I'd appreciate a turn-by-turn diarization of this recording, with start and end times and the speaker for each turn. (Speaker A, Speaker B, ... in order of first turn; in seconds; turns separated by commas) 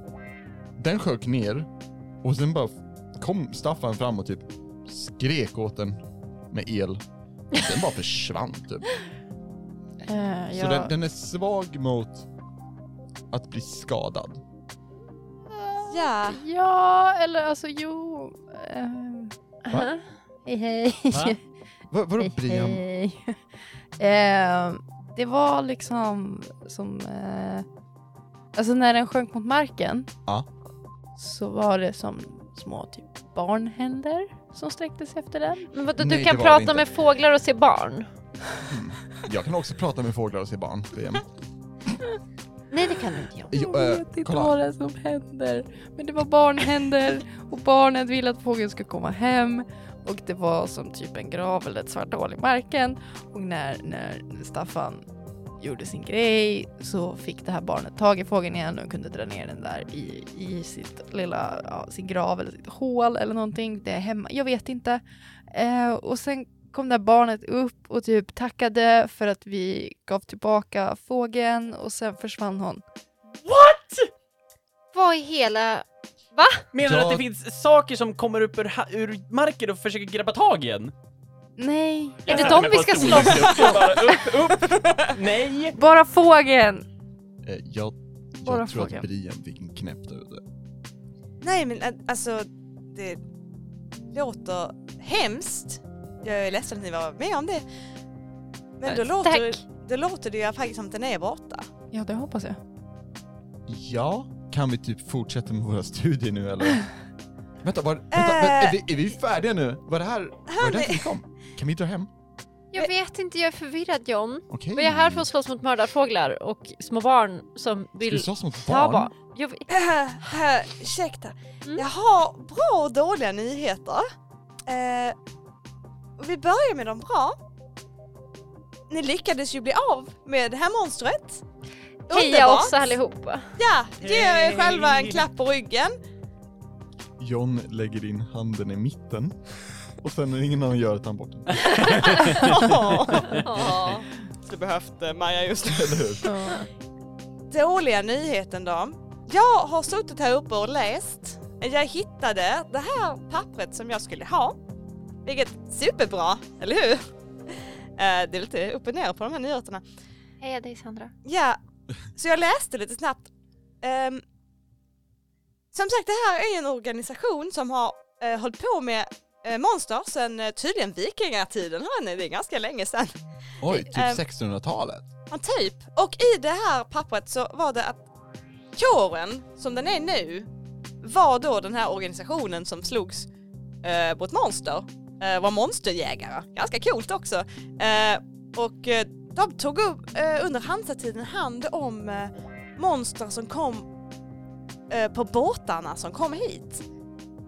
Speaker A: 0.8-1.7, Speaker A: 2.2-8.9, Speaker B: 10.0-10.9, Speaker A: 10.5-12.3, Speaker A: 13.3-14.4, Speaker C: 15.9-16.4, Speaker B: 16.3-19.4, Speaker D: 19.7-20.0, Speaker B: 20.4-21.4, Speaker E: 21.1-21.4, Speaker A: 21.9-22.8, Speaker B: 22.4-23.4, Speaker B: 24.0-27.6, Speaker B: 28.5-30.1, Speaker B: 31.2-35.7, Speaker D: 35.7-38.1, Speaker A: 36.0-36.9, Speaker A: 38.6-41.3, Speaker D: 42.7-43.5, Speaker A: 43.5-44.6, Speaker B: 43.5-55.0, Speaker B: 55.6-72.8, Speaker E: 73.4-74.1, Speaker D: 74.9-76.7, Speaker E: 76.7-80.9, Speaker A: 76.8-77.2, Speaker B: 81.6-82.7, Speaker E: 82.2-85.8, Speaker D: 82.3-83.9, Speaker B: 85.7-86.8, Speaker A: 87.4-90.4, Speaker B: 88.5-89.1, Speaker C: 91.4-93.2, Speaker C: 94.1-97.6, Speaker C: 98.8-101.7, Speaker D: 98.9-99.6, Speaker B: 101.9-102.6, Speaker A: 103.7-106.9, Speaker A: 107.6-112.1, Speaker C: 108.1-108.8, Speaker C: 110.5-111.1, Speaker D: 112.7-119.7, Speaker A: 114.5-115.3, Speaker A: 118.0-119.1, Speaker C: 119.7-124.0, Speaker C: 124.7-125.2, Speaker C: 126.2-127.4, Speaker C: 128.9-131.4, Speaker C: 132.1-132.9, Speaker D: 132.1-133.4, Speaker C: 133.6-136.0, Speaker E: 134.0-135.2, Speaker A: 137.2-139.4, Speaker A: 140.0-142.2, Speaker E: 141.7-142.5, Speaker C: 141.9-143.9, Speaker E: 143.1-143.4, Speaker D: 143.2-144.1, Speaker C: 144.4-146.5, Speaker A: 145.7-146.2, Speaker B: 146.2-146.7, Speaker C: 147.5-154.6, Speaker C: 155.2-159.8, Speaker D: 160.4-161.1, Speaker C: 161.2-161.6, Speaker C: 162.1-163.3, Speaker C: 163.8-164.2, Speaker C: 165.7-173.2, Speaker A: 173.6-175.1, Speaker C: 173.7-174.2, Speaker C: 175.3-178.0, Speaker C: 178.7-180.5, Speaker C: 181.0-183.3, Speaker C: 183.8-193.9, Speaker C: 194.9-196.8